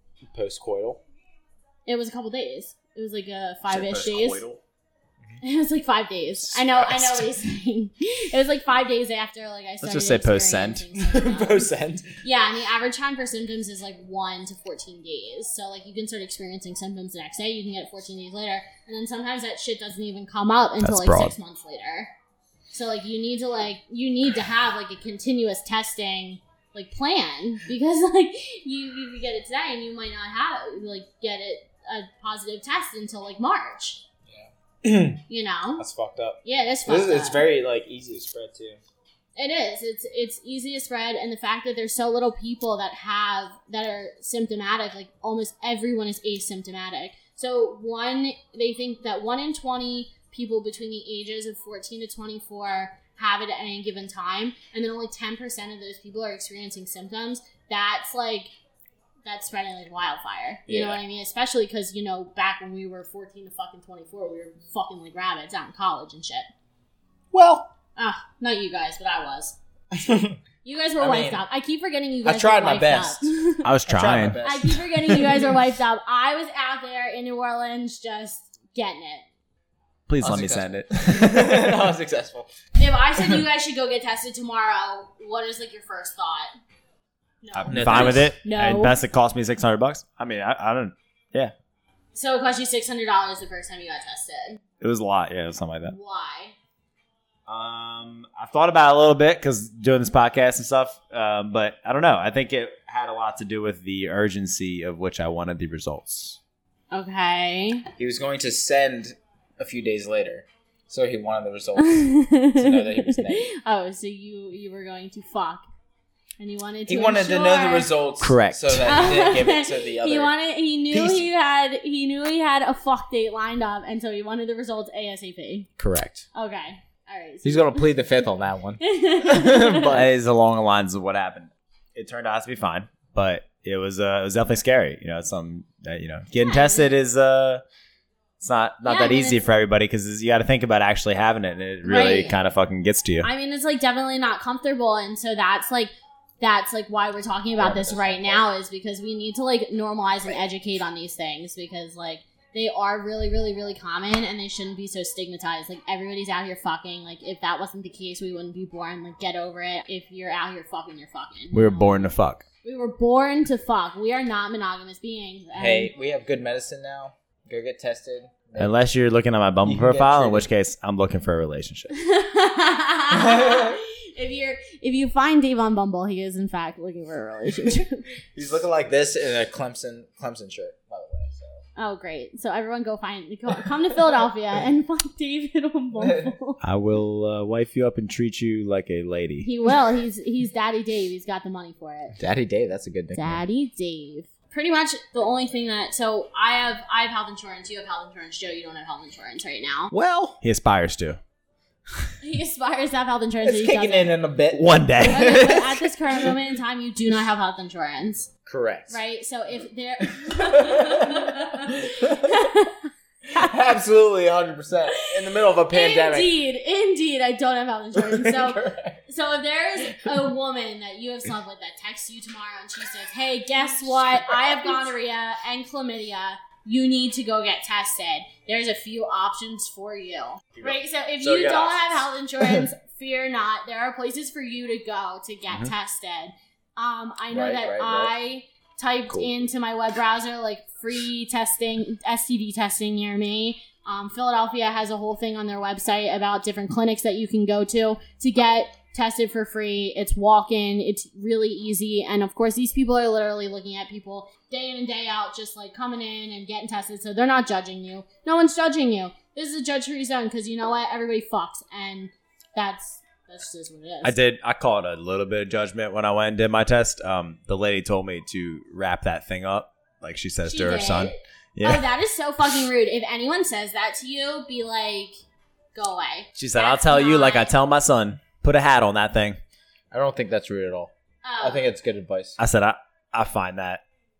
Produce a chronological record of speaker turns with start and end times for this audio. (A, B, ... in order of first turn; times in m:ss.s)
0:00.2-0:01.0 A
0:01.8-0:04.4 B
0:03.7-0:04.6 C
0:05.4-0:11.7 B
0:06.4-0:07.3 C
0:09.8-0:10.9 C
0:11.0-0:12.1 A
0:12.2-0:22.1 B
0:20.8-0:21.3 C
0:22.7-0:34.0 B
0:34.3-0:35.2 A
0:35.3-0:35.8 B
0:35.8-0:38.8 A
0:36.4-0:37.4 B
0:39.4-0:58.5 B
0:59.2-1:06.5 B
1:00.7-1:01.0 A
1:07.3-1:07.7 A
1:08.0-1:09.6 B
1:09.9-1:10.4 A
1:10.6-1:13.7 B
1:11.0-1:11.4 A
1:12.2-1:13.3 A
1:13.6-1:14.4 C
1:13.9-1:15.6 A
1:14.4-1:19.2 B
1:20.1-1:21.8 C
1:20.2-1:22.5 A
1:22.8-1:26.5 B
1:27.4-1:29.0 B
1:27.5-1:31.5 C
1:27.7-1:28.3 A
1:32.1-1:34.6 B
1:34.8-1:36.0 C
1:35.8-1:36.5 B
1:37.5-1:46.4 C
1:46.9-1:47.8 B
1:48.0-1:53.5 A
1:51.8-1:55.6 B
1:56.4-1:57.9 B
1:56.9-2:00.3 A
1:58.2-1:59.0 C
1:58.8-2:05.7 B
2:00.9-2:01.3 A
2:05.8-2:06.2 A
2:06.3-2:08.0 B
2:07.4-2:10.1 A
2:08.8-2:09.9 B
2:09.9-2:17.6 C
2:16.4-2:16.9 B
2:18.4-2:23.3 C
2:18.8-2:19.4 B
2:21.8-2:22.4 B
2:23.2-2:45.9 B
2:27.6-2:28.5 A
2:41.5-2:42.4 C
2:45.6-2:48.7 A
2:48.6-2:51.9 C
2:49.6-2:50.5 A
2:51.9-2:58.0 B
2:53.1-2:53.8 A
2:58.3-3:01.6 A
3:01.8-3:06.6 B
3:06.0-3:06.3 A
3:06.6-3:09.5 C
3:09.4-3:12.2 B
3:12.2-3:13.4 A
3:13.1-3:19.9 B
3:19.9-3:21.2 C
3:20.1-3:20.3 A
3:22.2-3:24.1 B
3:23.4-3:25.6 A
3:24.5-3:25.7 C
3:25.1-3:28.3 B
3:28.5-3:29.0 A
3:28.9-3:33.5 B
3:30.2-3:32.3 A
3:33.3-3:36.3 A
3:35.7-4:24.2 B
3:38.0-3:39.0 A
3:44.3-3:44.6 A
3:50.6-3:52.7 A
3:57.3-3:58.1 A
4:24.0-4:31.9 C
4:30.4-4:35.2 B
4:35.7-4:37.5 B
4:36.4-4:39.4 C
4:39.9-4:42.4 A
4:41.2-4:41.7 B
4:42.4-4:43.8 C